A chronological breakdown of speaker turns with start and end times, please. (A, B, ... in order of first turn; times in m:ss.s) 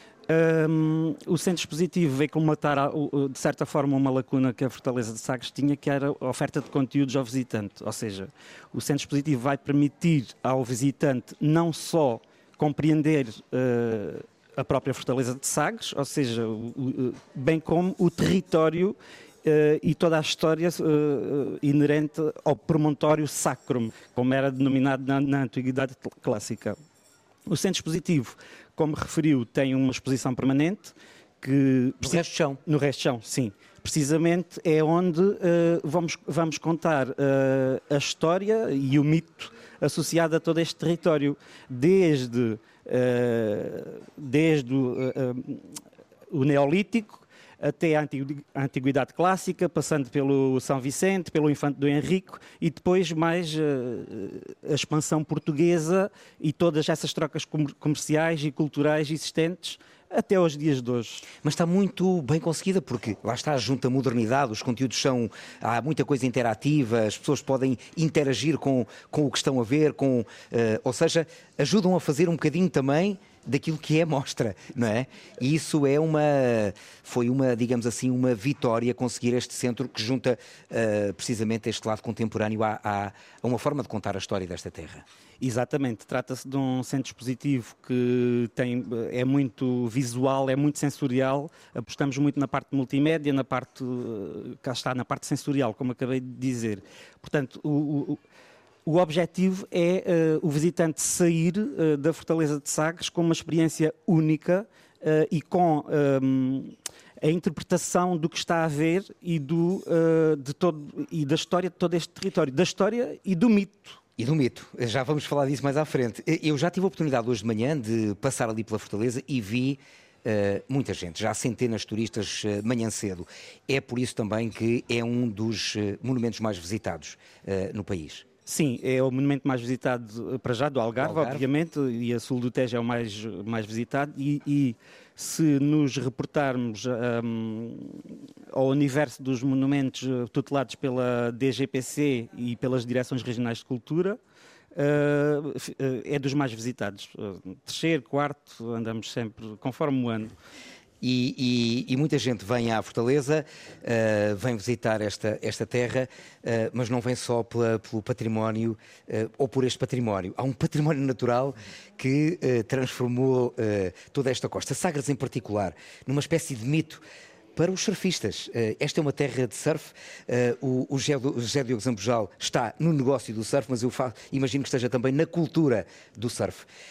0:00.3-0:26.8 A
0:27.5-0:45.8 A
0:32.0-0:32.6 B
0:46.3-1:01.2 A
1:01.4-1:25.0 B
1:25.4-1:38.2 A
1:38.9-1:54.0 A
1:54.2-2:08.2 B
2:08.5-2:24.2 A
2:11.0-2:11.5 B
2:24.7-2:30.3 A
2:31.0-2:47.0 B
2:47.6-2:56.7 B